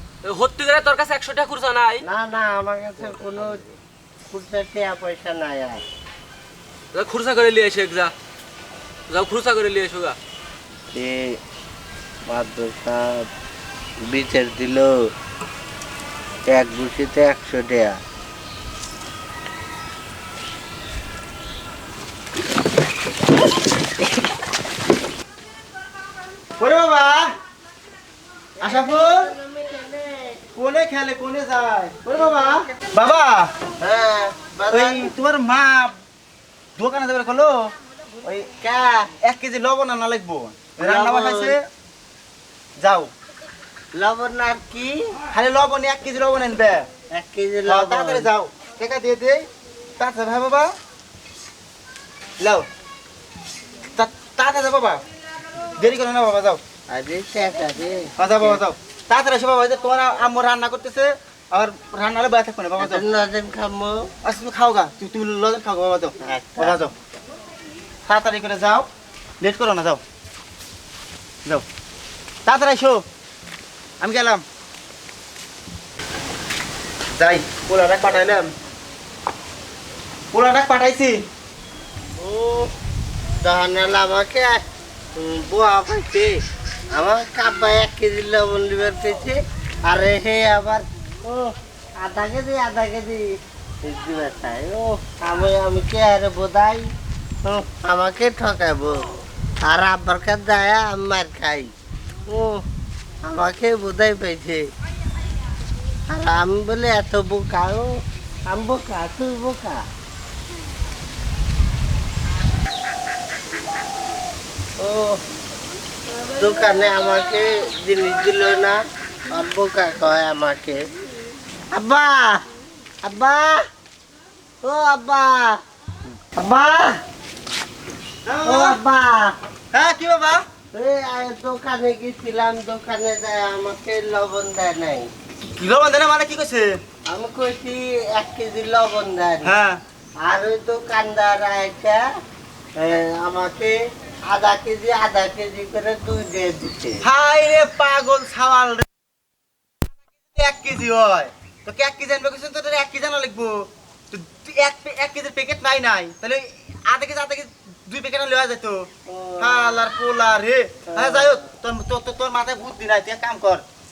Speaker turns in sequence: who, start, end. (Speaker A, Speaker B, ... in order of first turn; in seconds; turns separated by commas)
Speaker A: 0.2-2.0, Speaker B: 2.0-3.6, Speaker B: 4.3-5.8, Speaker A: 6.9-8.1, Speaker A: 9.1-10.2, Speaker B: 10.9-11.4, Speaker B: 12.3-13.2, Speaker B: 14.0-15.1, Speaker B: 16.4-18.0, Speaker C: 26.6-27.3, Speaker B: 28.6-30.4, Speaker C: 28.6-29.3, Speaker C: 30.5-33.5, Speaker B: 33.8-35.1, Speaker C: 34.7-35.9, Speaker C: 36.8-37.7, Speaker B: 38.2-39.1, Speaker C: 39.2-41.6, Speaker B: 40.8-41.6, Speaker C: 42.8-43.1, Speaker B: 44.0-45.2, Speaker C: 45.3-46.9, Speaker B: 47.1-48.3, Speaker C: 47.6-49.5, Speaker C: 50.0-50.7, Speaker C: 52.4-52.7, Speaker C: 53.9-55.0, Speaker C: 55.8-56.6, Speaker B: 56.9-58.6, Speaker C: 58.2-63.0, Speaker B: 62.8-64.1, Speaker C: 64.2-66.9, Speaker B: 66.2-66.8, Speaker C: 68.1-68.9, Speaker C: 69.4-70.0, Speaker C: 72.5-73.0, Speaker C: 74.0-74.4, Speaker C: 77.1-78.5, Speaker C: 80.3-81.2, Speaker B: 82.2-82.7, Speaker B: 83.4-84.6, Speaker B: 85.2-86.3, Speaker B: 86.9-93.3, Speaker B: 93.8-96.9, Speaker B: 97.4-99.0, Speaker B: 99.6-101.7, Speaker B: 102.3-102.6, Speaker B: 103.2-104.7, Speaker B: 106.1-107.9, Speaker B: 108.5-109.8, Speaker B: 114.8-115.2, Speaker B: 116.3-120.9, Speaker B: 121.7-122.4, Speaker B: 123.0-123.6, Speaker B: 124.6-125.6, Speaker B: 126.3-127.0, Speaker C: 128.2-128.8, Speaker B: 128.4-129.3, Speaker C: 129.7-130.4, Speaker B: 130.7-135.1, Speaker C: 135.6-136.8, Speaker B: 137.1-139.5, Speaker C: 139.4-139.8, Speaker B: 140.2-142.0, Speaker B: 142.8-147.0, Speaker C: 147.0-148.9, Speaker C: 150.3-158.9, Speaker B: 159.1-159.8, Speaker C: 159.4-163.6, Speaker B: 160.9-161.4